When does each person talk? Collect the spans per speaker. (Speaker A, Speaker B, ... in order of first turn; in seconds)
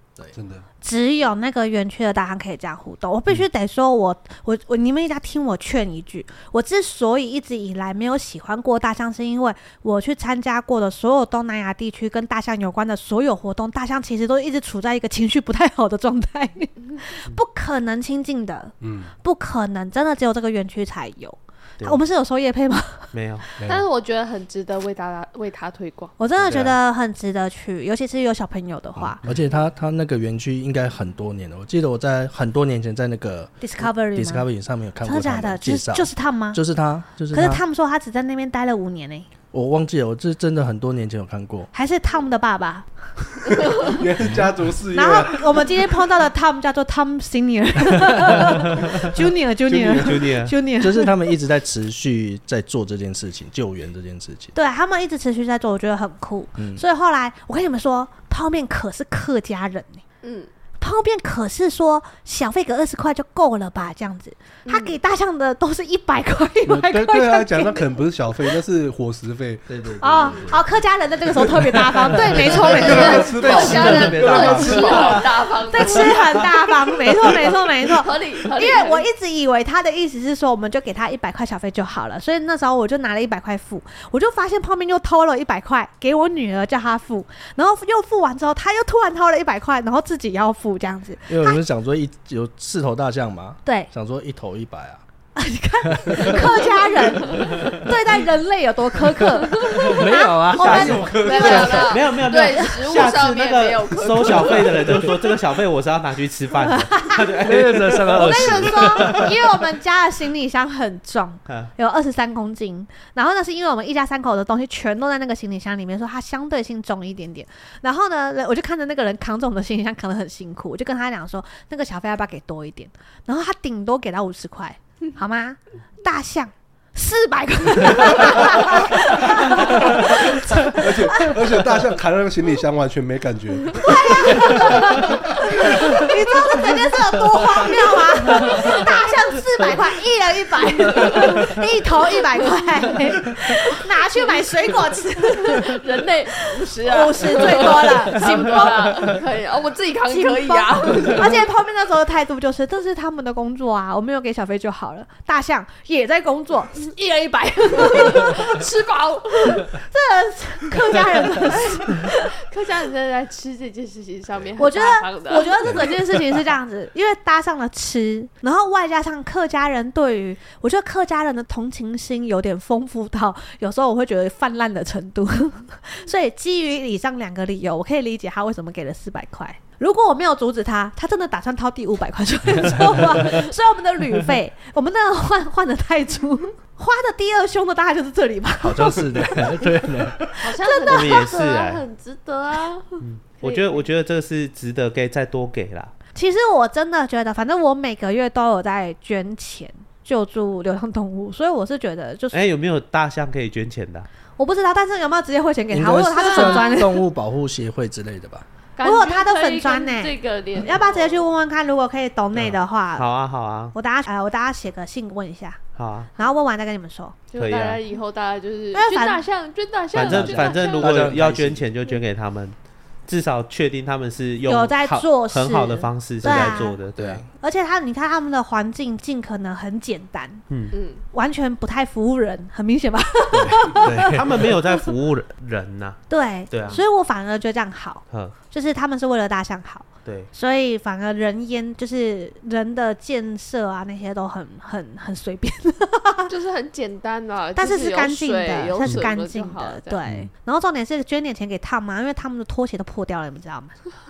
Speaker A: 0.3-0.7, 18.8-19.1, 23.6-23.8, 43.6-45.7, 49.7-50.2, 66.7-70.5, 72.7-75.2, 100.7-101.8, 130.0-135.6
Speaker B: 0.8-23.1, 26.2-29.2, 33.6-34.5, 35.0-36.6, 37.3-39.3, 41.7-43.8, 44.9-51.4, 54.5-60.0, 60.8-67.8, 70.0-75.2, 75.7-91.6, 93.6-93.9, 95.3-102.8, 106.5-107.4, 108.1-131.5, 133.8-145.8, 146.7-149.2, 150.1-158.6, 159.4-162.3, 164.6-189.7, 190.3-191.3, 196.1-202.4, 204.4-207.1, 208.8-213.1, 213.7-215.6, 216.1-217.2, 218.7-219.2, 224.4-226.8, 227.4-230.4, 231.1-234.9, 236.1-246.3, 247.6-253.7
Speaker C: 23.1-23.5, 26.4-26.8, 49.9-50.5, 73.5-74.5, 100.5-109.3, 190.9-191.8, 193.0-195.9, 202.3-204.1, 212.3-213.7, 215.7-216.1, 217.4-217.8, 219.9-222.6, 223.1-227.2, 233.9-236.8, 240.0-240.3
Speaker D: 23.6-26.1, 60.2-60.5, 64.6-65.0, 72.8-76.5, 77.7-79.0, 99.4-100.0, 101.1-105.1, 138.5-138.8, 140.7-141.6, 142.4-142.9, 145.3-151.3, 157.7-159.7, 161.4-165.9, 190.4-193.8, 206.2-206.7, 208.8-211.2, 217.3-221.0, 230.7-231.0, 246.3-250.0
Speaker E: 29.2-37.6, 39.5-41.7, 50.8-54.5, 56.6-56.8, 69.7-70.7, 71.5-75.2, 91.3-95.0, 95.8-97.9, 99.1-101.6, 104.8-105.1, 107.4-109.3, 182.8-183.4, 188.6-190.3, 205.7-208.4, 219.9-221.7, 226.2-227.3, 233.3-234.5